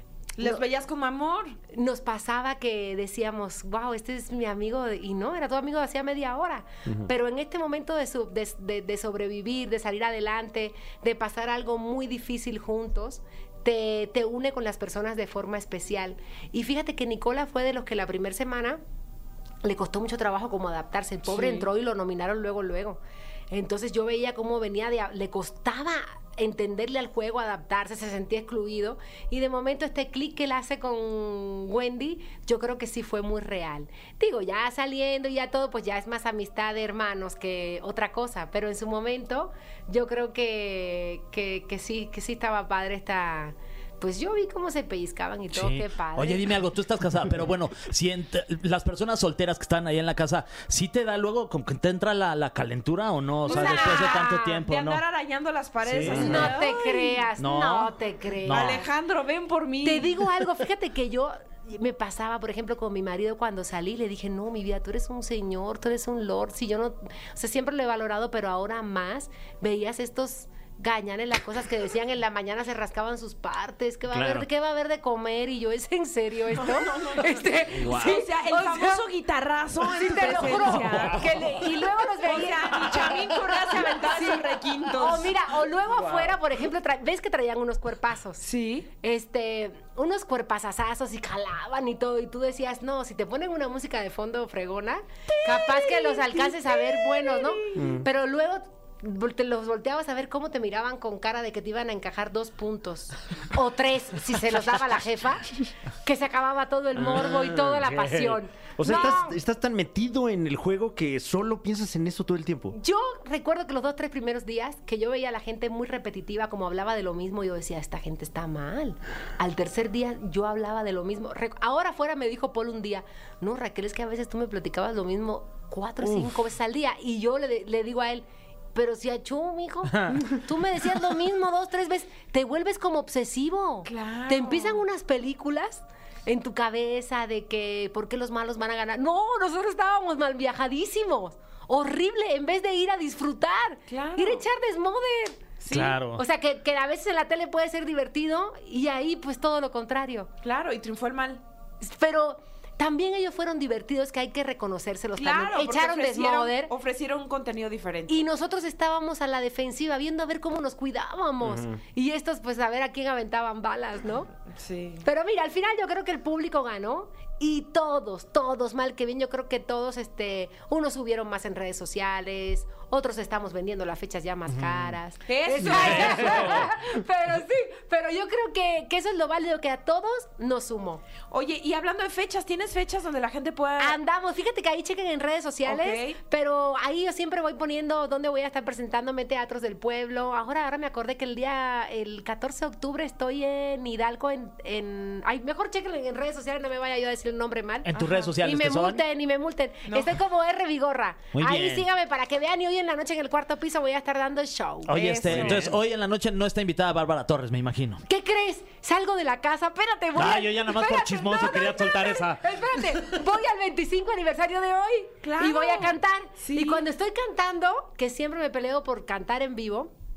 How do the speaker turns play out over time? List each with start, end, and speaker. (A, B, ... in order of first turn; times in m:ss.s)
0:00.4-0:01.6 A
0:00.4-0:00.6 B
0:01.7-0:18.8 B
0:19.6-0:23.0 B
0:21.3-0:21.7 A
0:23.5-0:46.5 B
0:45.5-0:55.0 C
0:53.4-0:57.2 A
0:53.4-0:54.6 B
0:55.8-0:56.6 C
0:56.0-0:56.5 D
0:56.1-0:58.8 B
0:57.4-0:58.8 C
0:58.5-1:00.2 A
0:59.8-1:19.1 B
1:14.1-1:14.4 D
1:16.6-1:21.6 A
1:17.7-1:18.2 D
1:19.9-1:28.4 B
1:22.2-1:25.3 A
1:28.4-1:28.9 A
1:29.0-1:49.4 B
1:35.4-1:37.9 A
1:37.8-1:38.0 D
1:47.0-1:52.8 D
1:52.7-2:30.3 B
2:09.9-2:10.2 C
2:13.8-2:14.8 A
2:23.9-2:24.4 A
2:25.6-2:26.0 A
2:25.7-2:26.2 C
2:30.4-2:31.4 A
2:31.8-2:36.7 B
2:35.2-2:38.2 A
2:38.1-2:44.3 B
2:41.4-2:41.8 D
2:44.5-2:45.0 A
2:45.0-3:01.0 B
2:54.5-2:55.0 C
2:55.3-2:56.6 A
2:55.6-2:56.7 D
3:01.3-3:04.0 A
3:03.8-3:25.3 B
3:05.6-3:06.2 A
3:17.8-3:19.0 C
3:17.9-3:18.3 A
3:19.9-3:20.2 A
3:21.3-3:21.8 C
3:24.8-3:28.0 C
3:24.9-3:25.6 A
3:25.2-3:25.8 D
3:28.0-3:39.9 B
3:30.1-3:33.1 C
3:35.2-3:36.8 A